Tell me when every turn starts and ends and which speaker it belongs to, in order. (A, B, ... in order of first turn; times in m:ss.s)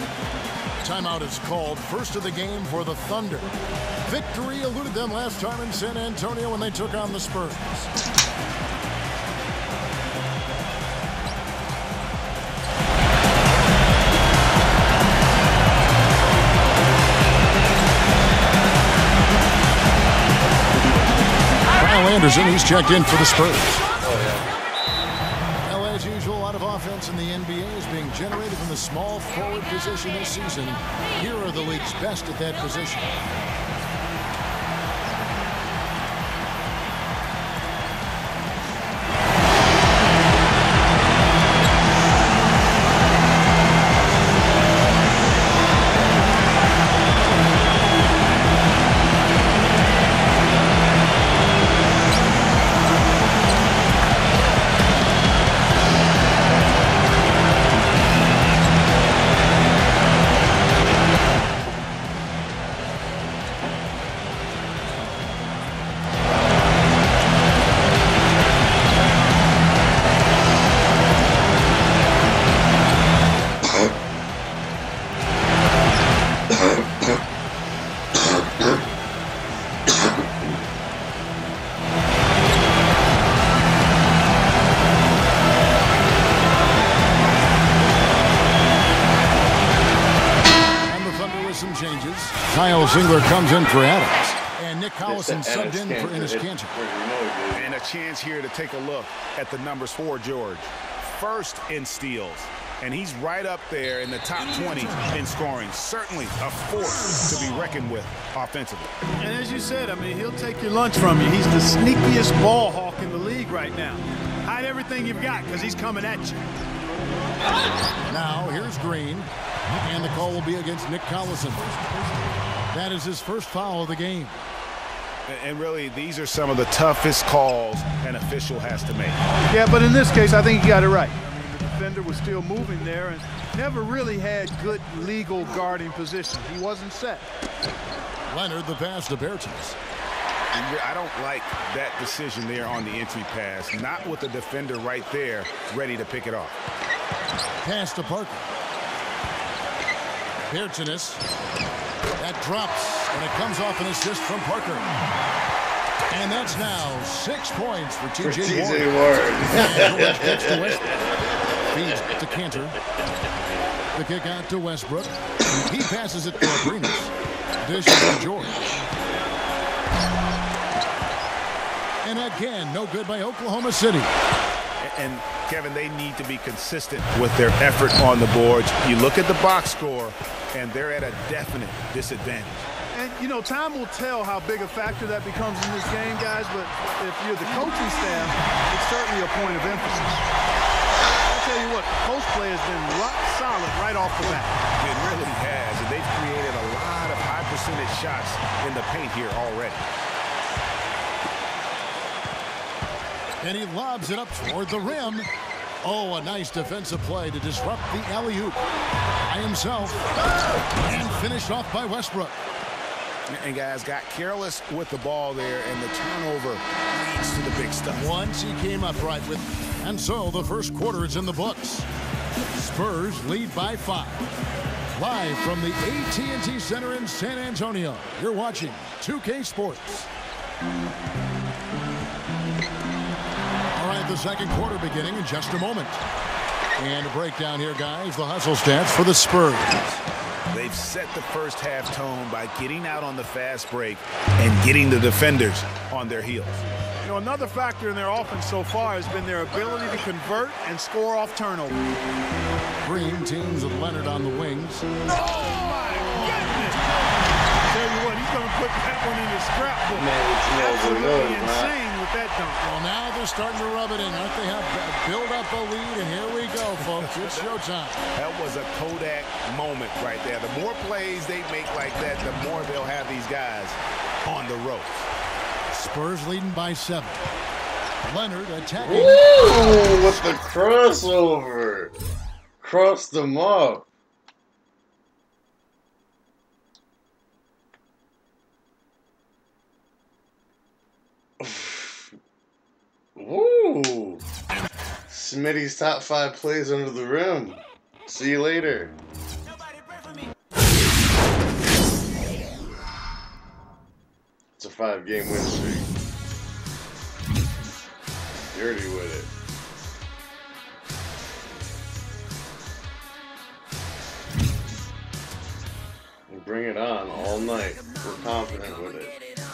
0:00.8-0:03.5 A
0:04.0-0:07.9 A
0:21.7-0:23.8 A
0:24.0-0:24.5 B
0:25.6-0:33.1 A
1:30.8-1:36.7 A
1:35.0-1:37.8 B
1:37.5-1:48.9 C
1:49.2-1:56.4 D
1:58.1-2:01.8 A
2:02.7-2:04.4 A
2:05.3-2:09.2 C
2:09.5-2:17.2 D
2:18.3-2:19.8 A
2:20.5-2:26.6 C
2:27.6-2:28.4 A
2:30.5-2:31.2 A
2:32.2-2:34.9 A
2:36.1-2:38.9 A
2:38.2-2:40.9 B
2:39.5-2:41.0 A
2:41.7-2:42.8 A
2:43.9-2:48.6 A
2:52.0-2:54.1 A
2:54.8-3:02.7 C
3:02.9-3:10.2 D
3:11.3-3:14.6 D
3:14.8-3:19.8 C
3:23.4-3:25.3 A
3:25.8-3:28.6 A
3:29.2-3:30.1 A
3:30.8-3:32.4 A
3:33.3-3:38.1 C
3:37.9-3:44.3 A
3:44.9-3:50.1 A
3:53.7-3:56.0 A
3:56.8-4:00.0 A
4:00.5-4:06.6 C
4:07.0-4:11.8 D
4:12.8-4:14.9 A
4:15.2-4:16.8 D
4:15.5-4:16.5 C
4:17.6-4:22.6 D
4:19.9-4:21.7 B
4:22.6-4:28.0 A
4:26.8-4:27.6 C
4:28.1-4:35.1 C
4:35.7-4:37.2 A
4:38.0-4:39.5 A
4:38.8-4:41.9 B
4:42.6-4:43.8 B
4:51.4-4:52.1 B
4:53.2-4:54.2 B
4:55.1-4:59.0 B
5:04.6-5:05.9 B
5:08.5-5:09.3 B
5:16.3-5:19.2 B